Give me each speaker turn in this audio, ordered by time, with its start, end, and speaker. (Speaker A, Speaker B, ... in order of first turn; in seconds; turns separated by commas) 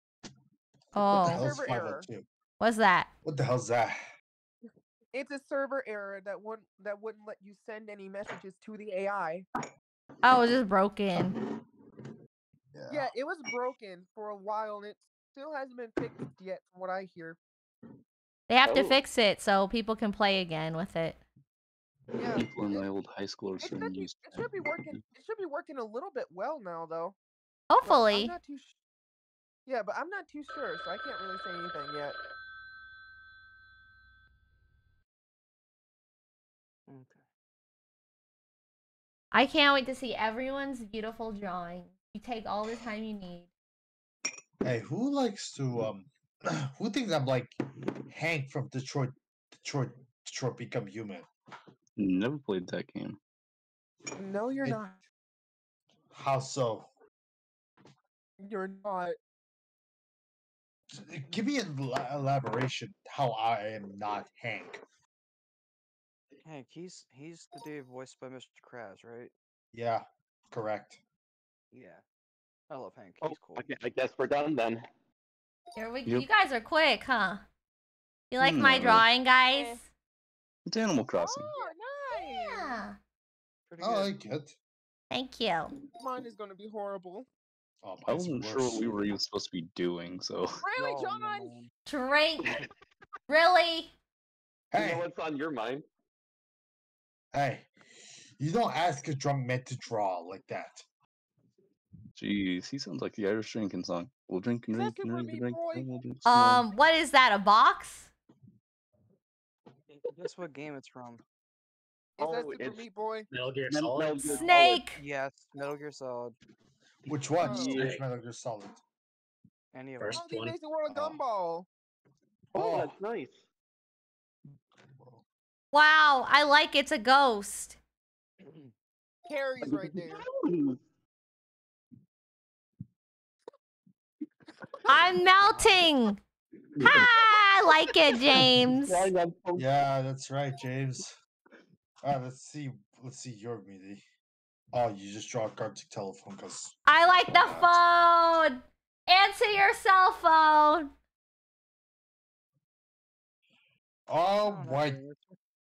Speaker A: 0.9-1.5, Speaker B: 1.1-2.3, Speaker C: 1.2-2.1, Speaker A: 2.6-3.1, Speaker B: 3.2-4.0, Speaker C: 5.1-9.5, Speaker A: 10.2-11.4, Speaker B: 12.7-13.1, Speaker C: 12.9-17.4, Speaker A: 18.5-21.2, Speaker D: 18.6-19.0, Speaker C: 22.2-22.9, Speaker E: 22.3-25.0, Speaker C: 23.6-27.2, Speaker A: 27.7-28.3, Speaker C: 27.8-28.8, Speaker C: 29.7-32.2, Speaker F: 36.9-37.2, Speaker A: 39.3-43.5, Speaker B: 44.6-47.5, Speaker B: 48.1-51.3, Speaker E: 52.0-53.2, Speaker C: 54.2-55.0, Speaker B: 56.1-56.9, Speaker C: 58.4-59.2, Speaker B: 60.9-64.8, Speaker F: 66.4-69.3, Speaker B: 69.7-71.0, Speaker F: 71.7-72.0, Speaker F: 72.7-73.7, Speaker D: 73.2-74.8, Speaker A: 75.8-77.4, Speaker A: 78.3-79.9, Speaker E: 78.4-79.1, Speaker C: 79.5-79.8, Speaker E: 80.7-81.5, Speaker C: 81.2-82.8, Speaker A: 82.1-83.0, Speaker F: 83.7-84.2, Speaker B: 83.8-84.5, Speaker A: 85.1-85.7, Speaker C: 86.0-87.3, Speaker B: 87.8-89.0, Speaker E: 88.1-90.7, Speaker C: 90.6-91.6, Speaker F: 90.8-91.7, Speaker A: 91.9-92.6, Speaker A: 93.3-93.9, Speaker B: 94.7-95.1, Speaker D: 94.7-95.8, Speaker B: 97.3-97.7, Speaker B: 98.4-100.8, Speaker E: 102.2-106.7, Speaker C: 104.7-105.9, Speaker A: 106.3-108.1, Speaker F: 109.9-111.2, Speaker D: 112.2-112.9, Speaker C: 112.2-113.3, Speaker G: 113.3-114.5, Speaker D: 113.7-114.8, Speaker A: 114.3-115.0, Speaker F: 114.9-116.3, Speaker B: 117.1-118.8, Speaker C: 117.4-117.9, Speaker D: 117.5-118.0, Speaker G: 117.7-118.0, Speaker F: 119.7-120.3, Speaker G: 120.0-120.6, Speaker C: 120.2-121.7, Speaker B: 120.9-121.2, Speaker B: 122.5-123.0, Speaker D: 122.5-123.4, Speaker B: 125.0-125.2, Speaker A: 125.7-127.8, Speaker F: 128.4-128.7, Speaker C: 129.3-130.2, Speaker D: 129.6-130.8, Speaker A: 134.9-136.2, Speaker F: 135.5-135.7, Speaker A: 136.8-139.1, Speaker D: 138.7-139.7, Speaker B: 139.6-141.2, Speaker B: 142.0-144.0, Speaker B: 144.7-147.8, Speaker A: 146.9-150.9, Speaker B: 154.1-155.0, Speaker F: 154.4-155.4